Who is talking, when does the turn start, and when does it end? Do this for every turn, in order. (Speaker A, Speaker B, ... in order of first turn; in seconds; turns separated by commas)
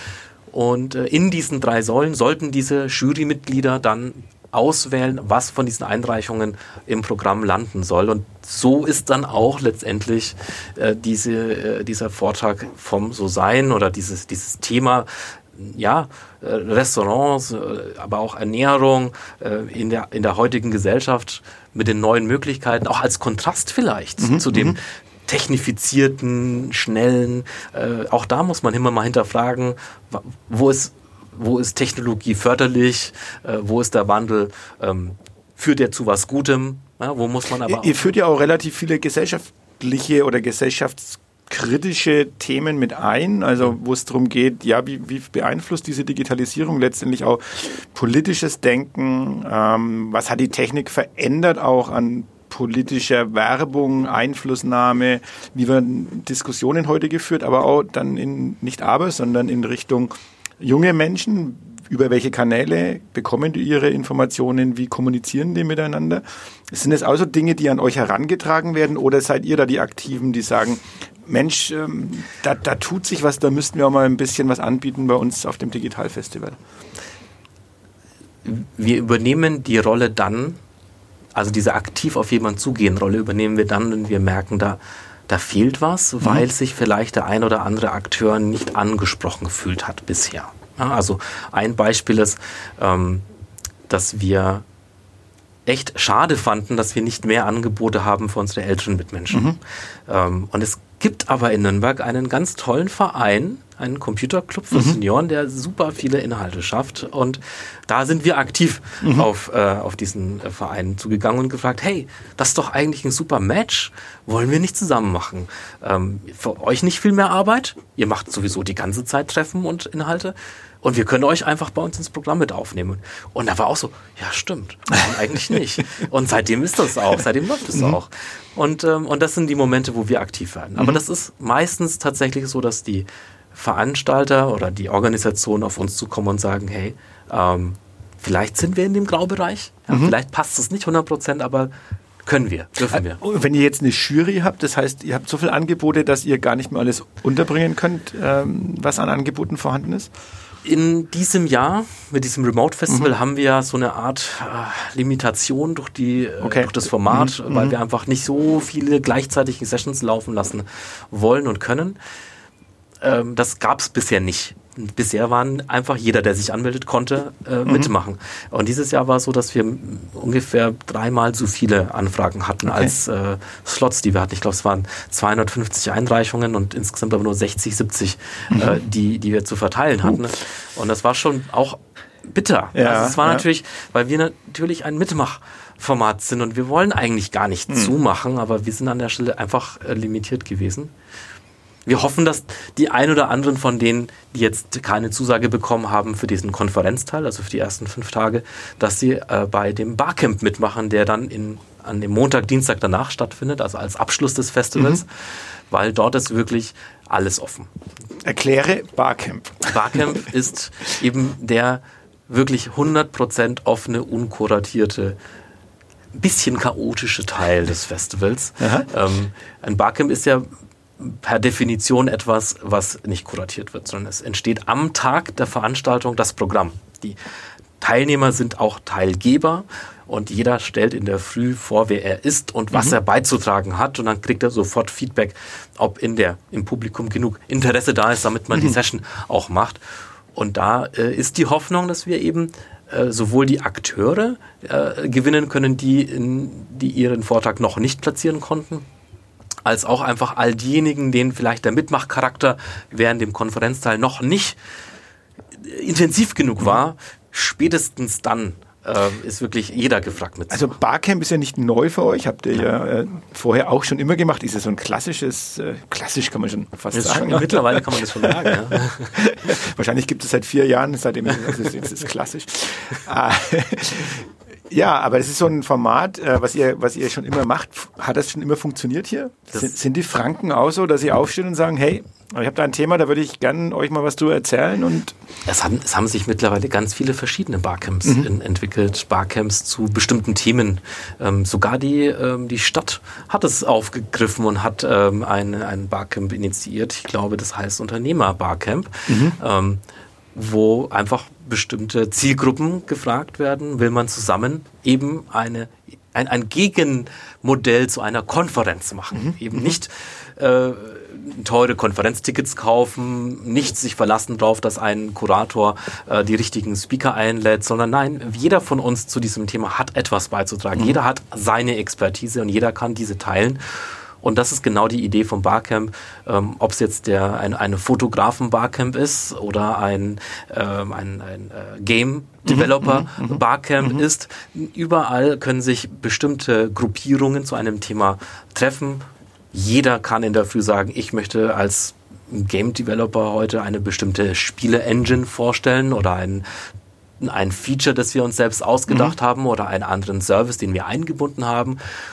Speaker A: 0.5-38.0, Speaker B: 24.2-24.8, Speaker B: 37.7-76.6, Speaker A: 78.4-80.6, Speaker A: 81.3-93.2, Speaker A: 93.9-94.6, Speaker A: 95.7-141.7, Speaker B: 99.3-99.6, Speaker B: 104.7-105.0, Speaker B: 109.0-109.3, Speaker B: 139.9-140.1, Speaker A: 142.2-143.2, Speaker B: 142.9-150.1, Speaker A: 150.6-162.0, Speaker B: 156.4-157.8, Speaker A: 163.0-190.9, Speaker B: 167.7-167.9, Speaker B: 172.7-172.9, Speaker B: 178.5-178.8, Speaker B: 182.7-183.4, Speaker B: 187.7-187.9, Speaker A: 191.8-205.1, Speaker A: 205.7-207.7, Speaker B: 208.2-210.0, Speaker A: 209.7-215.2, Speaker A: 216.1-220.5, Speaker B: 218.6-218.9, Speaker A: 221.0-227.2, Speaker A: 227.8-239.8, Speaker A: 240.3-248.8, Speaker A: 249.6-254.6, Speaker A: 255.6-260.7, Speaker B: 260.5-285.1, Speaker A: 266.9-269.3, Speaker A: 285.4-299.8, Speaker B: 288.0-288.3, Speaker B: 299.1-299.4, Speaker A: 300.3-346.4, Speaker B: 309.1-309.8, Speaker B: 332.4-334.0, Speaker A: 347.2-351.8, Speaker B: 348.9-349.1